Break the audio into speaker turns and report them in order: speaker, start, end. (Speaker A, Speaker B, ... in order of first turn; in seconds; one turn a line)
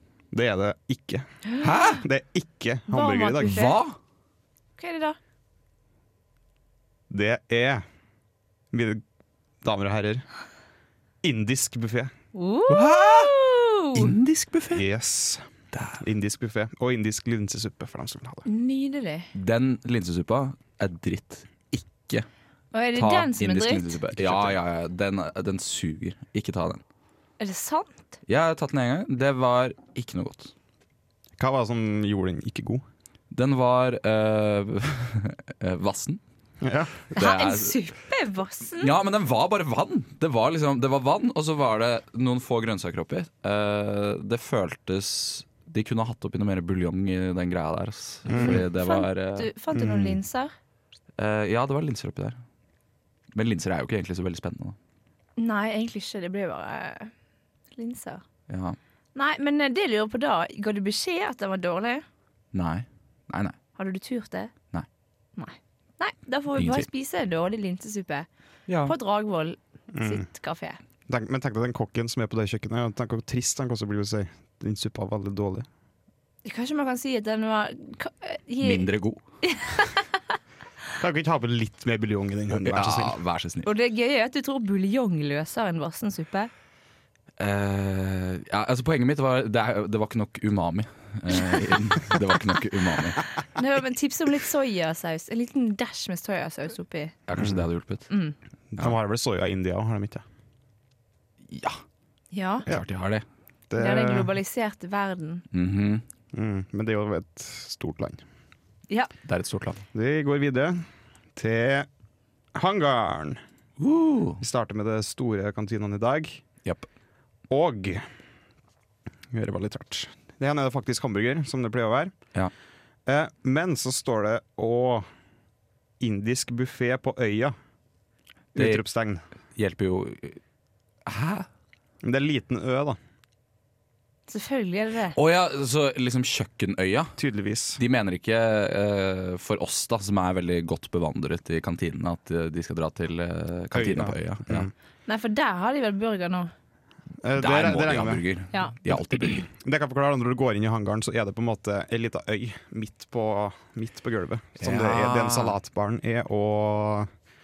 Speaker A: 0.3-3.6
Speaker B: 1.6-2.0
Speaker C: 2.9-3.8
Speaker B: 3.4-3.9
Speaker C: 4.8-5.2
Speaker A: 7.1-7.8
Speaker A: 8.7-9.0
Speaker A: 9.6-10.2
Speaker A: 11.2-12.1
Speaker C: 12.3-14.1
Speaker B: 12.7-13.4
Speaker B: 13.9-14.8
Speaker A: 14.7-18.4
Speaker B: 15.7-16.0
Speaker C: 18.4-19.3
Speaker B: 19.3-22.2
Speaker C: 22.7-24.0
Speaker B: 22.9-26.8
Speaker C: 27.4-28.1
Speaker B: 28.2-30.5
Speaker A: 31.4-32.8
Speaker B: 33.3-36.2
Speaker A: 36.6-37.0
Speaker B: 37.1-37.8
Speaker C: 37.1-38.9
Speaker B: 38.8-49.5
Speaker A: 48.3-48.6
Speaker C: 48.4-50.5
Speaker A: 49.7-50.2
Speaker B: 51.2-52.4
Speaker B: 53.3-54.8
Speaker C: 55.4-57.1
Speaker C: 57.8-58.2
Speaker B: 58.5-58.8
Speaker C: 59.1-62.0
Speaker B: 62.5-63.6
Speaker C: 63.8-64.5
Speaker C: 65.4-68.3
Speaker B: 66.5-66.8
Speaker B: 68.7-68.9
Speaker C: 68.8-70.8
Speaker A: 69.9-70.3
Speaker A: 71.1-75.7
Speaker C: 76.4-78.9
Speaker B: 78.6-79.2
Speaker C: 79.4-80.0
Speaker A: 81.0-83.2
Speaker B: 82.6-83.7
Speaker C: 83.6-86.5
Speaker B: 87.4-93.2
Speaker C: 93.5-97.1
Speaker B: 97.3-98.1
Speaker A: 97.4-97.6
Speaker C: 98.1-98.3
Speaker A: 98.7-100.2
Speaker B: 101.5-101.8
Speaker C: 102.3-102.7
Speaker B: 102.7-103.2
Speaker A: 103.7-104.3
Speaker C: 103.8-105.4
Speaker B: 105.5-106.0
Speaker A: 106.3-108.2
Speaker B: 109.2-109.8
Speaker A: 109.9-111.9
Speaker A: 112.5-113.4
Speaker B: 113.8-114.4
Speaker A: 114.4-116.4
Speaker A: 117.5-118.1
Speaker A: 119.3-122.1
Speaker A: 123.1-125.1
Speaker A: 126.0-127.5
Speaker B: 128.5-128.8
Speaker A: 128.5-129.2
Speaker B: 129.5-130.4
Speaker B: 131.0-131.5
Speaker A: 132.0-133.0
Speaker C: 134.3-135.2
Speaker B: 135.1-137.2
Speaker A: 137.2-137.8
Speaker B: 137.8-144.7
Speaker A: 143.7-144.7
Speaker C: 145.1-146.5
Speaker A: 147.2-148.2
Speaker B: 147.4-149.4
Speaker A: 148.8-157.1
Speaker B: 154.6-155.6